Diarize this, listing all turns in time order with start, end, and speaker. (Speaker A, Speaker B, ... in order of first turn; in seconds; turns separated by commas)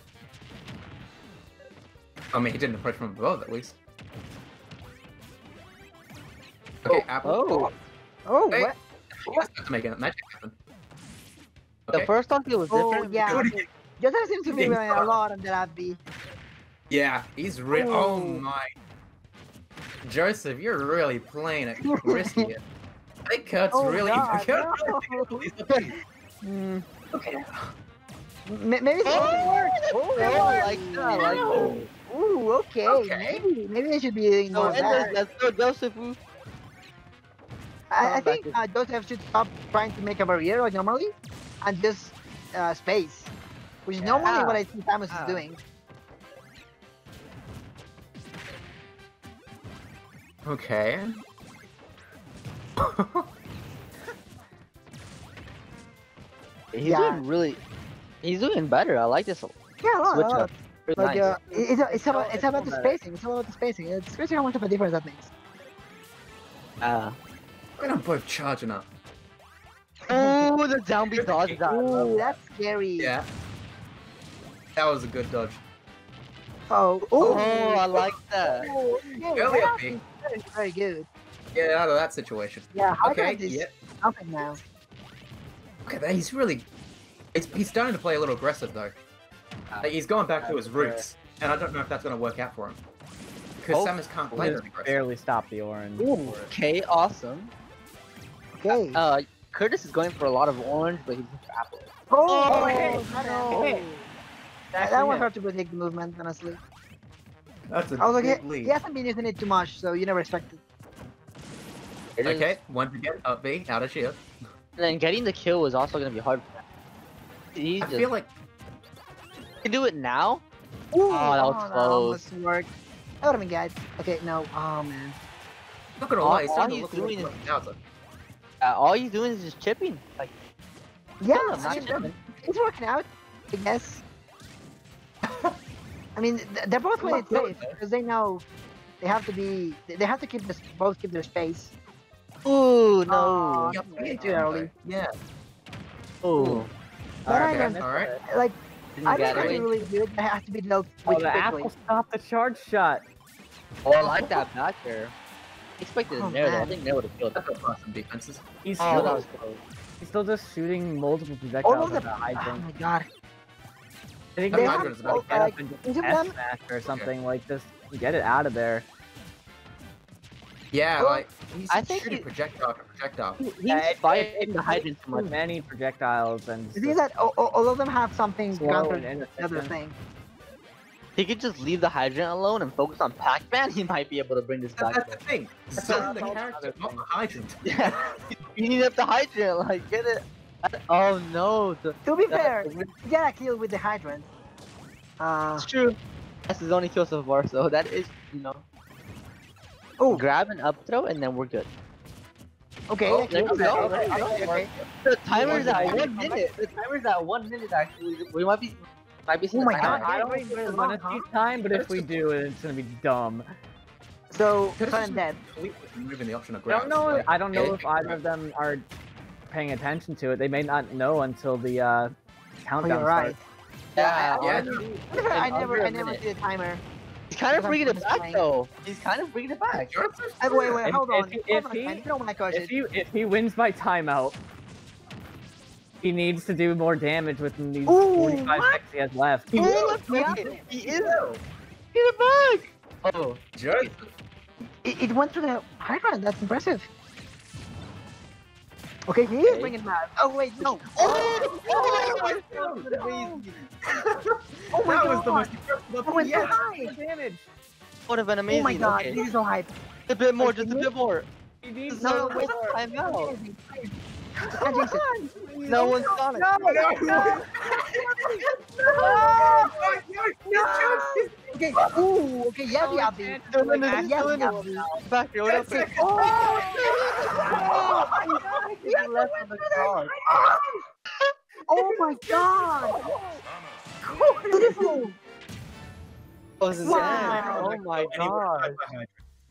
Speaker A: 2.3-3.8, Speaker A: 6.8-7.7, Speaker B: 7.2-7.7, Speaker C: 8.2-8.7, Speaker A: 8.5-10.6, Speaker B: 11.9-13.5, Speaker C: 12.7-13.5, Speaker A: 13.2-13.7, Speaker C: 14.0-16.0, Speaker A: 14.5-15.1, Speaker A: 16.9-18.7, Speaker C: 17.7-18.4, Speaker A: 20.0-22.6, Speaker C: 21.8-22.5, Speaker A: 23.2-25.9, Speaker C: 23.7-25.3, Speaker C: 26.4-26.8, Speaker A: 27.1-27.7, Speaker C: 28.5-35.1, Speaker B: 29.0-31.7, Speaker A: 31.1-31.9, Speaker A: 32.9-33.4, Speaker B: 34.5-36.2, Speaker C: 37.9-43.3, Speaker B: 38.0-38.6, Speaker C: 43.9-45.6, Speaker B: 44.0-45.5, Speaker A: 50.4-51.1, Speaker A: 52.8-53.3, Speaker B: 56.7-57.6, Speaker C: 56.9-57.2, Speaker B: 58.2-59.5, Speaker C: 59.8-65.3, Speaker B: 60.0-63.0, Speaker B: 66.8-67.2, Speaker A: 67.8-68.9, Speaker C: 70.1-70.5, Speaker B: 70.1-72.4, Speaker A: 71.1-71.6, Speaker C: 71.7-73.1, Speaker A: 73.0-73.3, Speaker A: 74.7-75.6, Speaker C: 76.7-77.9, Speaker A: 77.2-78.0, Speaker B: 77.2-78.7, Speaker C: 78.5-81.1, Speaker A: 79.3-80.0, Speaker A: 81.5-83.7, Speaker C: 82.7-84.6, Speaker A: 85.8-86.7, Speaker A: 87.3-89.0, Speaker A: 89.8-92.8, Speaker D: 90.5-91.0, Speaker A: 93.6-95.0, Speaker B: 93.7-94.6, Speaker D: 94.3-96.5, Speaker B: 96.0-97.5, Speaker C: 98.5-99.0, Speaker B: 98.7-101.9, Speaker C: 102.1-104.0, Speaker D: 102.4-103.0, Speaker B: 102.4-103.8, Speaker A: 102.5-103.0, Speaker D: 103.5-103.9, Speaker D: 104.7-105.3, Speaker C: 104.8-106.6, Speaker A: 107.7-108.7, Speaker C: 108.0-110.6, Speaker B: 112.2-112.5, Speaker A: 112.2-114.2, Speaker B: 114.8-116.6, Speaker B: 117.5-118.1, Speaker A: 117.8-118.3, Speaker B: 119.6-120.4, Speaker C: 120.9-122.7, Speaker B: 121.1-122.2, Speaker C: 123.2-125.2, Speaker A: 126.0-127.8, Speaker B: 126.2-127.4, Speaker B: 128.6-130.3, Speaker C: 131.2-134.0, Speaker B: 131.3-132.2, Speaker A: 131.6-132.1, Speaker A: 135.2-135.6, Speaker C: 136.2-138.4, Speaker A: 137.0-137.8, Speaker C: 139.0-141.7, Speaker B: 142.4-143.8, Speaker C: 143.1-144.7, Speaker A: 143.7-145.1, Speaker B: 146.2-146.7, Speaker D: 147.2-148.2, Speaker C: 147.3-151.7, Speaker A: 147.3-148.1, Speaker B: 148.9-149.7, Speaker A: 149.2-149.7, Speaker D: 151.1-153.0, Speaker B: 153.8-155.1, Speaker C: 154.0-154.4, Speaker B: 155.8-157.4, Speaker C: 156.1-156.8, Speaker A: 157.3-159.2, Speaker D: 158.6-162.6, Speaker B: 158.8-159.3, Speaker C: 161.6-163.1, Speaker D: 164.3-168.8, Speaker A: 164.5-165.4, Speaker C: 164.5-166.3, Speaker A: 166.8-167.1, Speaker A: 170.7-173.4, Speaker C: 171.0-171.2, Speaker B: 171.7-172.2, Speaker B: 173.4-175.3, Speaker D: 173.7-177.0, Speaker C: 176.7-179.9, Speaker D: 178.5-179.7, Speaker B: 181.2-185.1, Speaker A: 184.8-188.0, Speaker B: 185.8-187.0, Speaker C: 185.8-186.3, Speaker B: 187.6-192.9, Speaker C: 192.0-194.3, Speaker C: 195.2-195.7, Speaker B: 195.6-196.0, Speaker B: 196.5-198.6, Speaker C: 200.0-200.2, Speaker B: 200.1-201.7, Speaker C: 202.9-204.7, Speaker A: 203.0-204.8, Speaker B: 203.3-210.1, Speaker D: 203.4-204.3, Speaker C: 205.3-206.5, Speaker D: 205.4-206.3, Speaker A: 205.4-206.0, Speaker C: 209.5-211.2, Speaker D: 209.8-213.4, Speaker A: 211.7-212.1, Speaker C: 214.3-215.4, Speaker A: 214.8-218.2, Speaker D: 216.7-218.8, Speaker D: 219.5-223.3, Speaker C: 222.8-223.4, Speaker B: 223.9-226.2, Speaker C: 223.9-226.8, Speaker D: 224.4-225.1, Speaker A: 224.4-224.8, Speaker B: 227.3-230.0, Speaker C: 227.5-228.4, Speaker A: 229.9-230.8, Speaker C: 230.4-232.7, Speaker D: 230.8-234.4, Speaker D: 236.0-239.5, Speaker C: 237.9-238.8, Speaker C: 239.5-240.6, Speaker B: 239.5-241.2, Speaker A: 240.1-241.4, Speaker B: 241.9-243.4, Speaker A: 243.5-244.1, Speaker C: 244.8-246.9, Speaker C: 249.1-251.5, Speaker B: 249.4-249.7, Speaker B: 250.6-253.5, Speaker A: 251.0-252.9, Speaker C: 253.0-253.3, Speaker A: 253.9-256.6, Speaker C: 254.7-255.5, Speaker C: 256.1-256.9, Speaker D: 256.3-257.4, Speaker B: 258.1-259.2, Speaker C: 258.5-259.7, Speaker B: 260.1-261.3, Speaker C: 260.4-260.9, Speaker D: 261.6-262.8, Speaker B: 261.9-263.3, Speaker C: 261.9-263.9, Speaker C: 264.5-267.4, Speaker D: 264.9-267.4, Speaker B: 265.7-266.8, Speaker A: 266.6-268.3, Speaker D: 269.0-269.5, Speaker A: 269.0-271.3, Speaker C: 269.0-269.7, Speaker C: 270.6-274.9, Speaker D: 272.7-275.0, Speaker B: 273.5-280.1, Speaker A: 275.5-278.3, Speaker C: 275.7-276.7, Speaker C: 277.5-280.6, Speaker C: 281.7-283.0, Speaker D: 282.3-283.4, Speaker C: 284.5-285.2, Speaker B: 286.6-288.8, Speaker C: 286.8-287.7, Speaker A: 286.8-289.1